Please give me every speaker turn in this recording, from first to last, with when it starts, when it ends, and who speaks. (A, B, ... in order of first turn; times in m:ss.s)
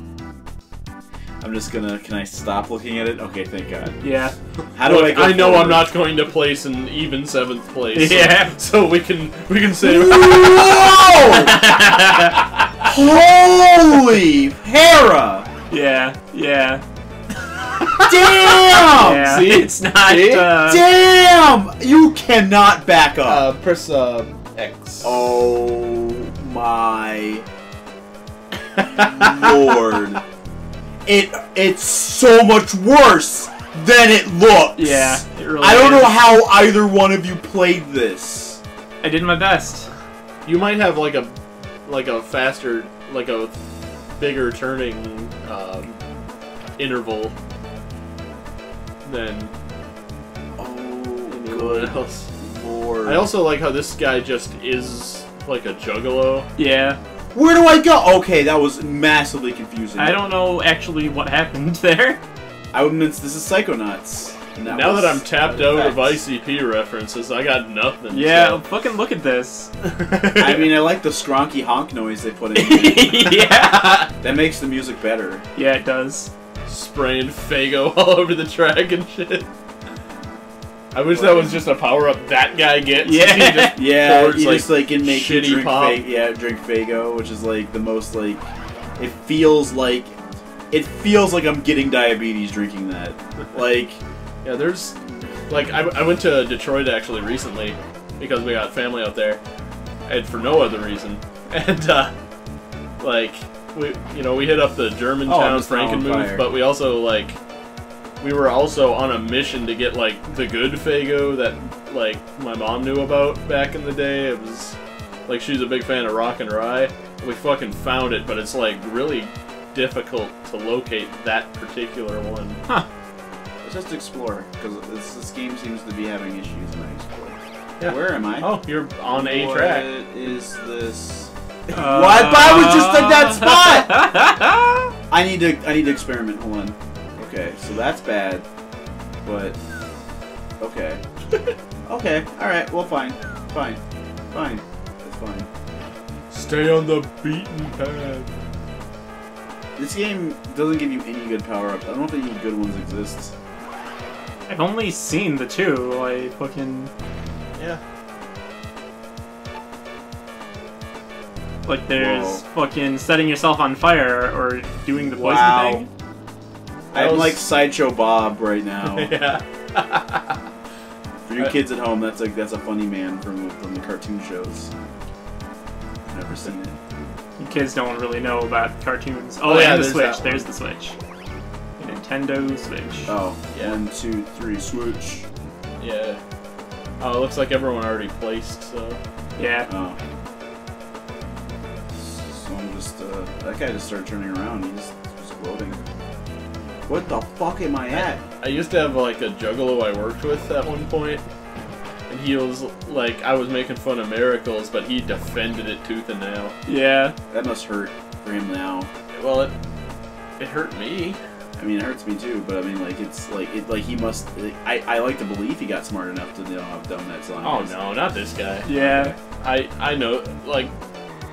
0:01.4-0:04.0 A
0:04.0-0:04.3 B
0:04.8-0:05.9 A
0:04.8-0:10.8 C
0:08.0-0:08.5 B
0:09.8-0:11.6 A
0:11.3-0:12.4 B
0:12.8-0:15.5 A
0:15.7-0:16.8 B
0:17.7-0:20.5 C
0:18.0-0:19.3 A
0:18.8-0:20.8 B
0:20.6-0:23.5 A
0:23.2-0:25.2 C
0:25.0-0:27.5 A
0:28.8-0:29.6 C
0:28.9-0:30.2 A
0:31.1-0:38.6 A
0:34.8-0:36.2 B
0:39.0-0:39.9 B
0:40.4-0:43.6 C
0:44.2-0:46.0 C
0:46.8-0:47.4 C
0:49.0-0:49.5 C
0:50.6-0:53.3 A
0:51.3-0:52.3 C
0:53.0-0:56.5 C
0:56.6-0:57.0 B
0:57.4-1:00.2 A
1:00.0-1:02.2 B
1:02.7-1:06.2 A
1:04.7-1:08.6 C
1:08.1-1:09.7 B
1:09.8-1:10.7 C
1:10.4-1:13.5 A
1:12.6-1:14.0 B
1:13.6-1:14.1 C
1:14.2-1:15.4 A
1:15.6-1:16.3 B
1:16.7-1:19.5 C
1:20.9-1:26.0 C
1:21.1-1:21.7 A
1:23.0-1:23.8 B
1:23.7-1:30.2 A
1:30.7-1:34.0 A
1:34.4-1:35.0 C
1:35.5-1:39.4 C
1:40.1-1:42.1 C
1:43.0-1:47.4 C
1:45.3-1:46.5 A
1:48.2-2:02.6 C
2:03.6-2:08.6 A
2:07.8-2:09.9 C
2:09.1-2:13.9 A
2:11.7-2:14.9 B
2:15.1-2:18.4 A
2:19.2-2:19.6 A
2:20.6-2:21.0 A
2:21.9-2:23.8 A
2:24.3-2:25.5 A
2:26.3-2:28.3 C
2:29.8-2:33.3 A
2:34.5-2:36.9 B
2:37.6-2:37.8 C
2:41.7-2:45.8 B
2:41.9-2:42.4 A
2:45.2-2:45.9 A
2:46.9-2:47.4 C
2:46.9-2:49.1 A
2:48.8-2:50.4 C
2:51.2-2:54.7 A
2:56.1-2:56.8 A
2:57.4-3:01.0 B
2:59.4-3:00.5 C
3:01.8-3:03.2 B
3:03.1-3:05.3 A
3:03.5-3:03.8 C
3:05.8-3:06.2 C
3:07.0-3:09.0 C
3:09.4-3:09.7 B
3:09.7-3:10.0 A
3:12.0-3:15.8 A
3:16.9-3:18.2 A
3:17.9-3:21.3 C
3:22.1-3:26.6 C
3:26.7-3:27.2 B
3:27.3-3:28.9 A
3:29.1-3:29.6 C
3:30.4-3:31.2 C
3:31.6-3:37.7 A
3:37.4-3:38.7 C
3:38.7-3:39.2 B
3:38.7-3:39.2 A
3:39.4-3:40.7 C